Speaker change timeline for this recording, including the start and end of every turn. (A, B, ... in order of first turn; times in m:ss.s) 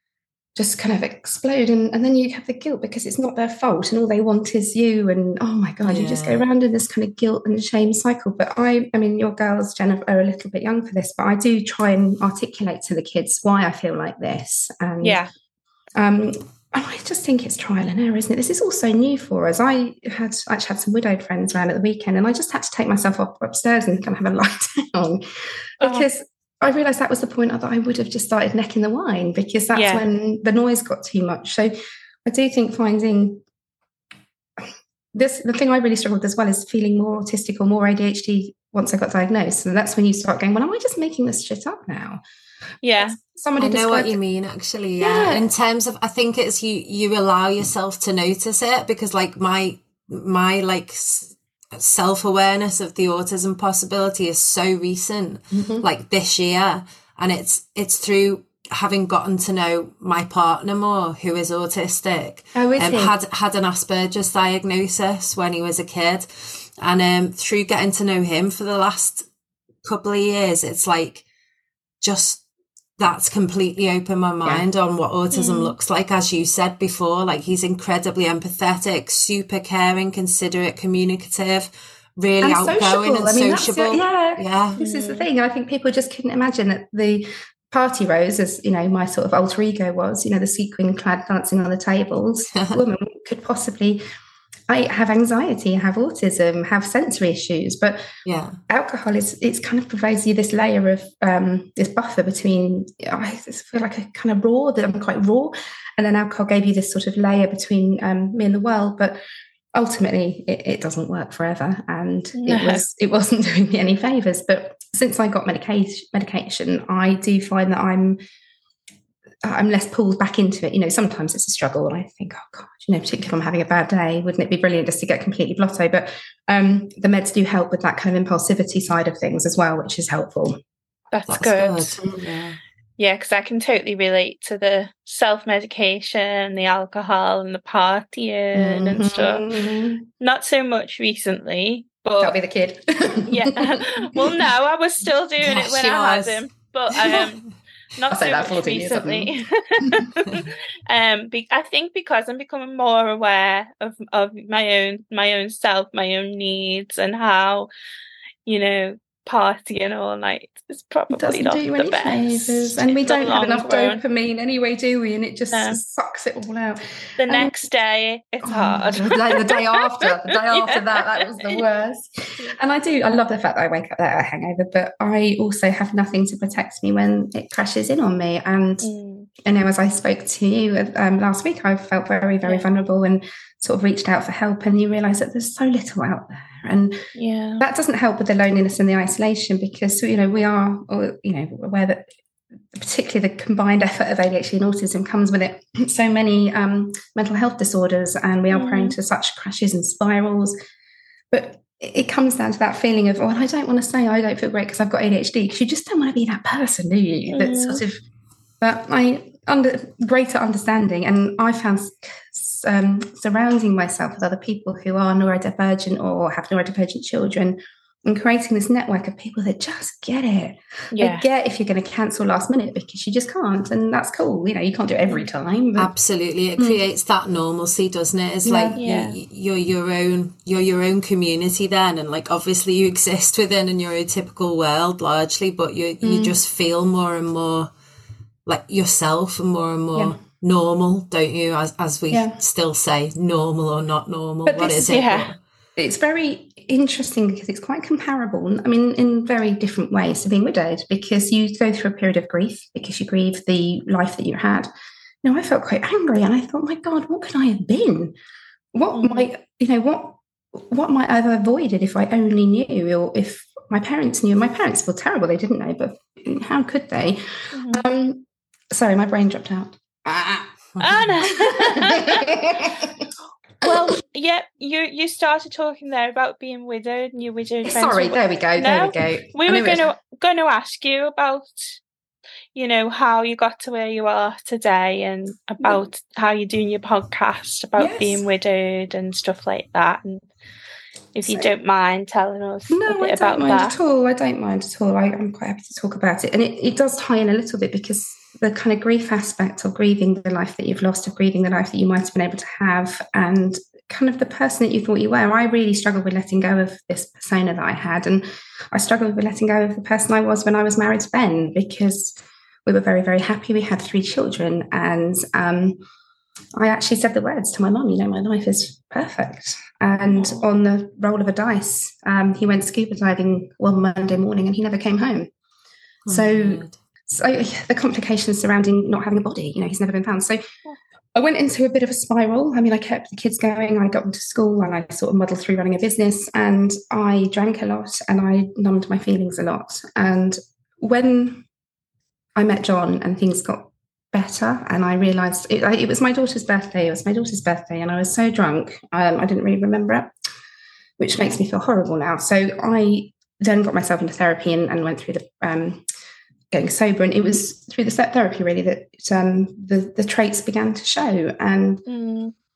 0:00.6-0:15.2 A
0:05.8-0:06.4 B
0:15.0-0:15.3 C
0:16.0-0:25.2 A
0:25.8-0:31.7 A
0:25.8-0:26.1 C
0:29.7-0:30.0 C
0:32.2-0:33.4 A
0:34.6-0:42.2 A
0:42.8-0:43.2 C
0:43.0-0:44.2 A
0:43.6-1:09.3 B
0:45.0-0:45.5 A
0:55.5-0:55.8 A
1:02.5-1:03.1 A
1:09.8-1:11.2 B
1:12.0-1:12.4 B
1:13.0-1:24.8 B
1:15.3-1:15.7 C
1:22.4-1:34.0 A
1:24.8-1:25.2 C
1:32.5-1:32.8 B
1:34.7-1:38.0 A
1:38.2-1:38.6 B
1:38.7-1:49.2 A
1:49.7-1:58.2 A
1:52.4-1:52.8 C
1:59.4-2:10.6 A
2:11.1-2:12.0 C
2:11.3-2:12.6 B
2:13.0-2:19.4 C
2:18.5-2:20.0 A
2:20.2-2:22.3 C
2:22.2-2:24.3 A
2:23.3-2:27.4 C
2:25.4-2:27.3 B
2:27.9-2:37.7 C
2:28.1-2:29.3 A
2:38.4-2:44.0 C
2:41.1-2:47.7 A
2:45.5-2:45.8 C
2:47.2-2:51.6 C
2:48.4-2:58.9 A
2:58.8-2:59.3 C
2:59.4-3:07.0 A
3:07.1-3:07.6 C
3:07.6-3:12.1 A
3:12.7-3:20.6 A
3:18.5-3:19.0 C
3:21.3-3:28.0 A
3:27.3-3:27.8 C
3:28.6-3:45.9 A
3:40.9-3:41.2 C
3:45.8-3:57.7 B
3:48.4-3:48.8 A
3:48.8-3:49.2 C
3:56.0-3:56.4 A
3:58.4-4:05.4 B
4:02.1-4:02.4 A
4:04.4-4:05.0 A
4:04.8-4:05.3 C
4:05.8-4:14.7 A
4:15.2-4:18.2 A
4:18.7-4:30.5 A
4:18.9-4:19.3 C
4:27.5-4:27.8 C
4:30.8-4:31.1 B
4:30.8-4:32.3 C
4:31.2-4:33.1 A
4:33.6-4:41.8 C
4:37.6-4:39.9 A
4:42.5-4:50.2 C
4:47.8-4:48.2 A
4:51.1-4:53.8 C
4:51.2-4:51.5 A
4:52.7-5:15.8 A
5:16.6-5:25.3 A
5:26.0-5:26.8 B
5:26.1-5:30.4 A
5:31.1-5:41.4 A
5:42.4-5:50.1 A
5:51.0-5:55.8 A
5:56.5-6:01.8 A
6:01.9-6:02.3 C